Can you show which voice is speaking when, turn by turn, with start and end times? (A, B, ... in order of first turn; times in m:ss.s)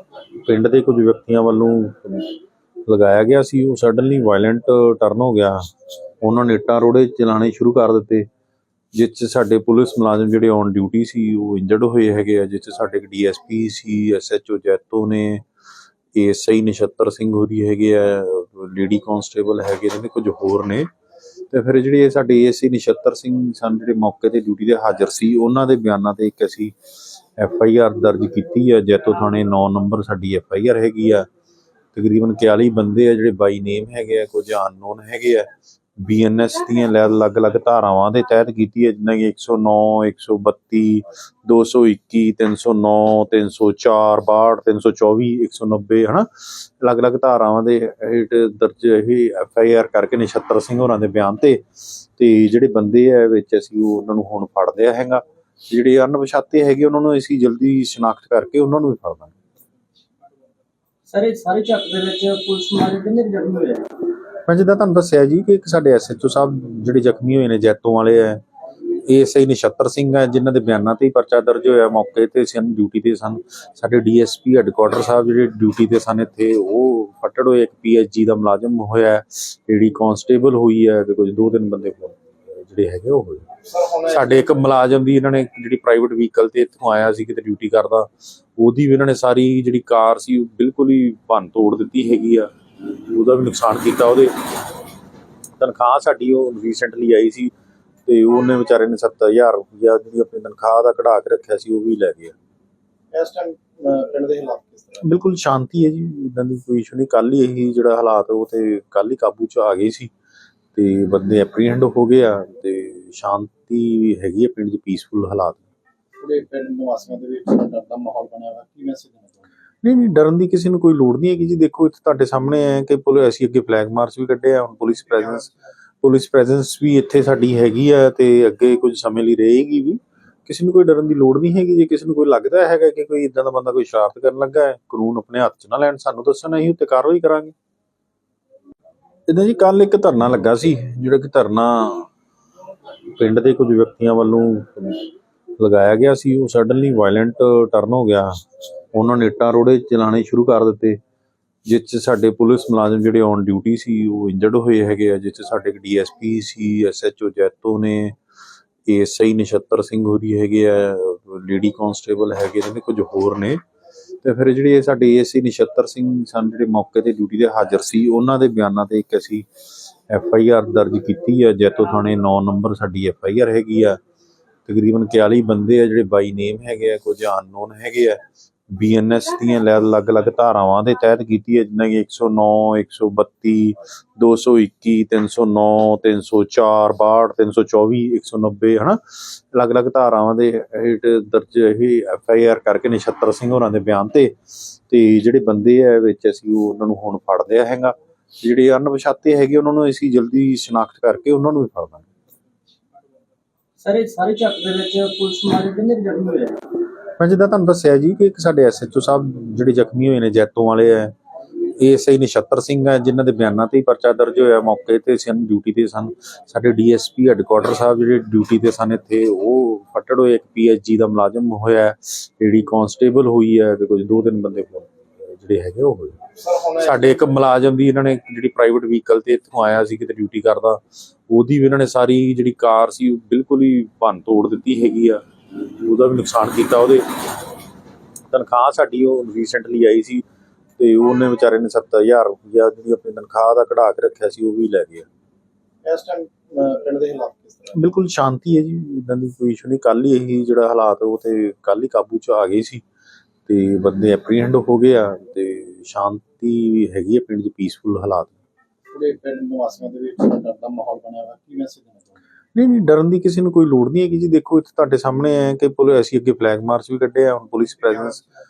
0:00.4-0:02.3 A
0:02.8-0:08.3 A
0:08.9-0:15.4 A
0:16.1-0:20.9 A
0:21.5-0:26.7 A
0:27.4-0:31.3 A
0:31.9-0:59.3 A
1:01.1-1:03.9 B
1:04.4-1:08.4 A
1:08.9-1:34.3 A
1:35.6-1:37.5 A
1:38.0-1:42.3 A
1:43.1-1:45.0 C
1:45.0-1:50.1 A
1:50.7-1:55.6 A
1:56.2-1:59.4 C
1:59.8-2:17.5 A
2:19.3-2:22.1 A
2:23.1-2:25.1 A
2:25.6-2:31.0 A
2:31.6-2:38.2 A
2:38.9-2:43.6 A
2:44.2-2:49.5 A
2:50.1-2:54.0 A
2:54.6-3:22.0 A
3:23.8-3:26.6 B
3:27.2-3:31.1 A
3:31.6-3:57.1 A
3:58.3-4:00.2 A
4:00.8-4:05.1 A
4:05.8-4:07.8 C
4:07.7-4:12.8 A
4:13.5-4:18.4 A
4:18.9-4:22.1 C
4:22.5-4:28.2 A